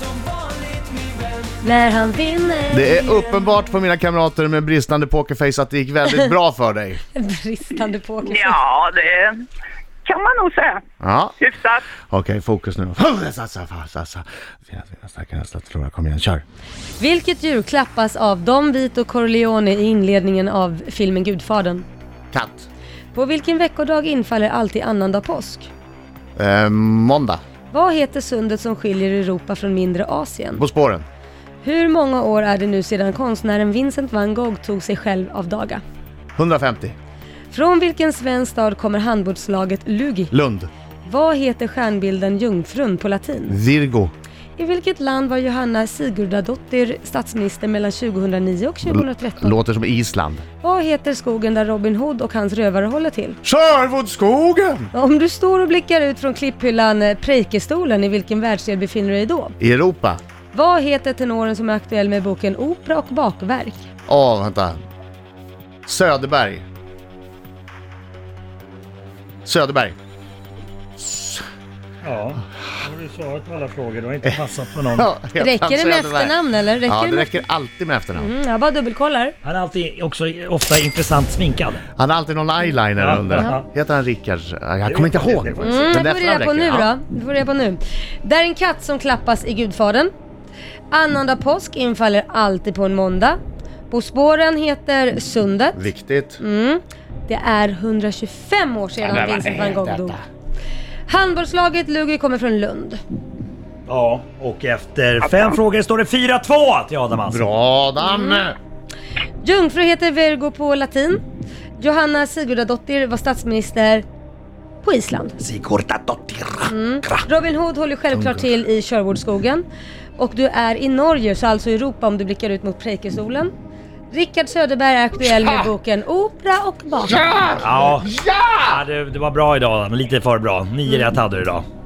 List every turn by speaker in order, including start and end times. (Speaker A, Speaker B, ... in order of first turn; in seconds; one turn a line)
Speaker A: 1.6-3.1
Speaker B: 2.7-7.0
Speaker A: 7.1-8.6
Speaker C: 8.2-9.4
Speaker C: 10.0-10.8
Speaker B: 11.0-11.3
Speaker C: 11.4-11.9
Speaker B: 12.0-16.4
Speaker A: 17.0-21.9
Speaker B: 22.3-22.7
Speaker A: 23.1-25.7
Speaker B: 26.4-27.4
Speaker A: 27.7-30.6
Speaker B: 30.6-31.1
Speaker A: 31.6-35.8
Speaker B: 36.4-36.9
Speaker A: 37.5-40.3
Speaker B: 40.3-40.7
Speaker A: 41.0-43.6
Speaker B: 43.5-44.1
Speaker A: 44.6-49.5
Speaker B: 48.9-50.4
Speaker A: 50.6-53.4
Speaker B: 53.4-54.9
Speaker A: 54.9-59.5
Speaker B: 59.6-60.2
Speaker A: 60.5-63.9
Speaker B: 64.1-64.8
Speaker B: 65.8-66.6
Speaker B: 69.5-69.9
Speaker B: 71.0-71.4
Speaker D: 72.0-75.1
Speaker B: 75.0-76.3
Speaker A: 75.4-77.4
Speaker B: 76.8-78.3
Speaker A: 78.2-79.3
Speaker D: 79.4-81.8
Speaker B: 82.0-86.9
Speaker D: 83.0-83.6
Speaker D: 84.8-86.1
Speaker A: 85.6-90.1
Speaker A: 90.9-95.8
Speaker B: 95.7-96.4
Speaker A: 96.4-100.2
Speaker B: 99.0-100.2
Speaker A: 101.1-103.0
Speaker D: 103.9-107.4
Speaker C: 105.2-105.5
Speaker B: 107.3-108.5
Speaker A: 108.0-108.5
Speaker A: 109.4-111.2
Speaker A: 111.8-114.0
Speaker A: 114.8-115.4
Speaker D: 115.4-117.3
Speaker A: 116.7-119.6
Speaker B: 118.2-118.4
Speaker A: 120.2-123.5
Speaker A: 124.1-127.2
Speaker B: 127.2-127.5
Speaker D: 127.6-131.6
Speaker B: 128.2-128.6